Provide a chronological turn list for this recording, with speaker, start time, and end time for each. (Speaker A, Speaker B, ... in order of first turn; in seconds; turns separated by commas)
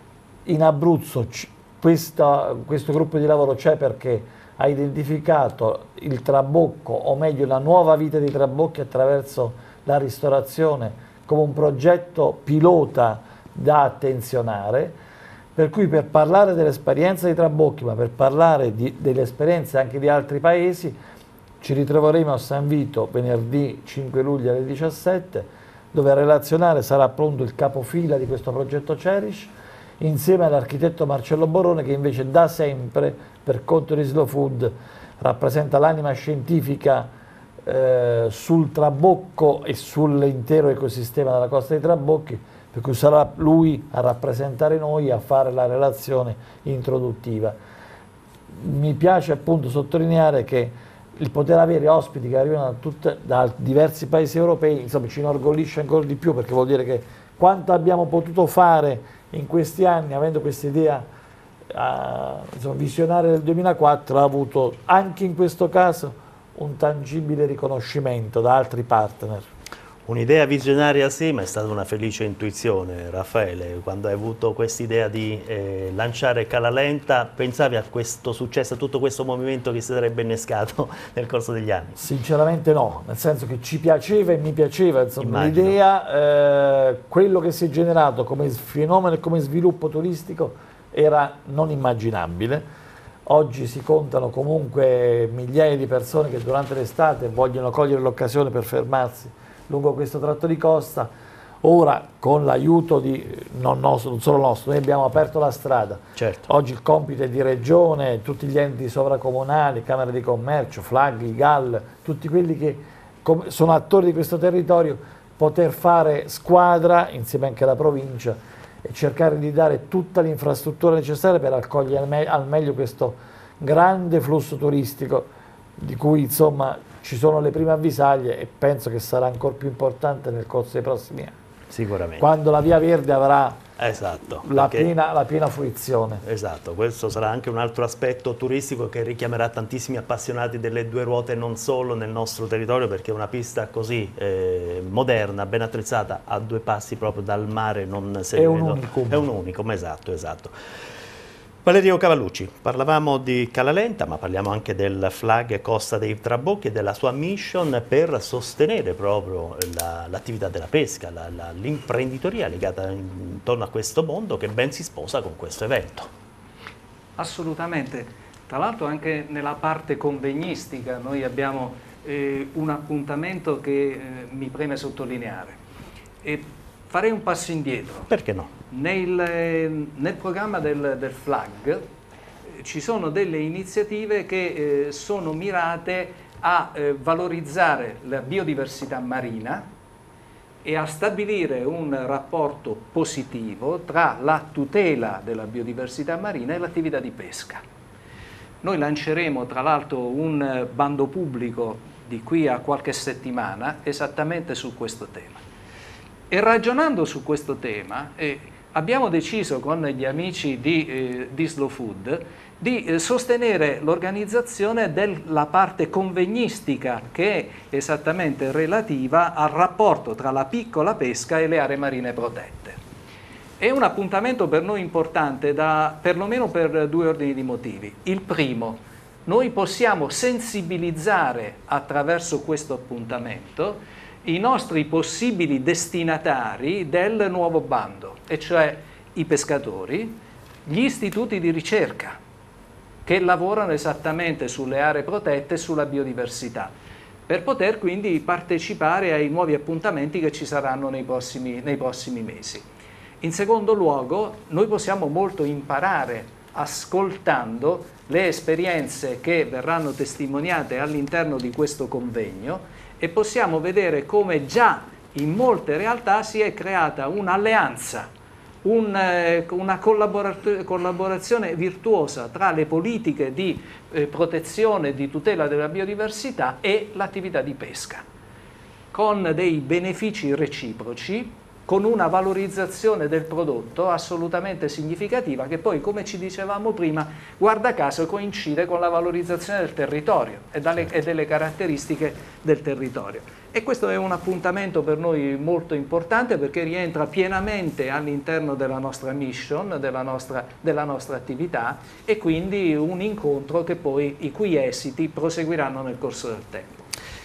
Speaker A: 0.5-15.0, Speaker A: 15.6-21.0, Speaker A: 21.6-37.1, Speaker A: 37.6-47.6, Speaker A: 48.5-61.1, Speaker A: 61.7-69.5, Speaker B: 70.1-82.0, Speaker A: 82.0-92.6, Speaker B: 85.2-85.8, Speaker A: 93.3-101.1, Speaker A: 101.6-131.3, Speaker B: 106.2-106.5, Speaker B: 131.7-132.3, Speaker A: 132.2-133.6, Speaker B: 133.8-134.9, Speaker A: 134.4-136.2, Speaker B: 136.2-150.5, Speaker A: 148.3-149.3, Speaker B: 151.6-166.1, Speaker C: 167.2-175.6, Speaker C: 176.2-178.1, Speaker B: 178.1-178.5, Speaker C: 178.7-181.8, Speaker C: 182.5-189.7, Speaker C: 190.6-197.6, Speaker C: 198.6-205.4, Speaker C: 206.3-222.8, Speaker C: 223.6-242.2, Speaker C: 243.1-246.7, Speaker C: 247.3-252.6, Speaker C: 253.2-268.1, Speaker C: 268.6-278.0, Speaker C: 278.9-306.9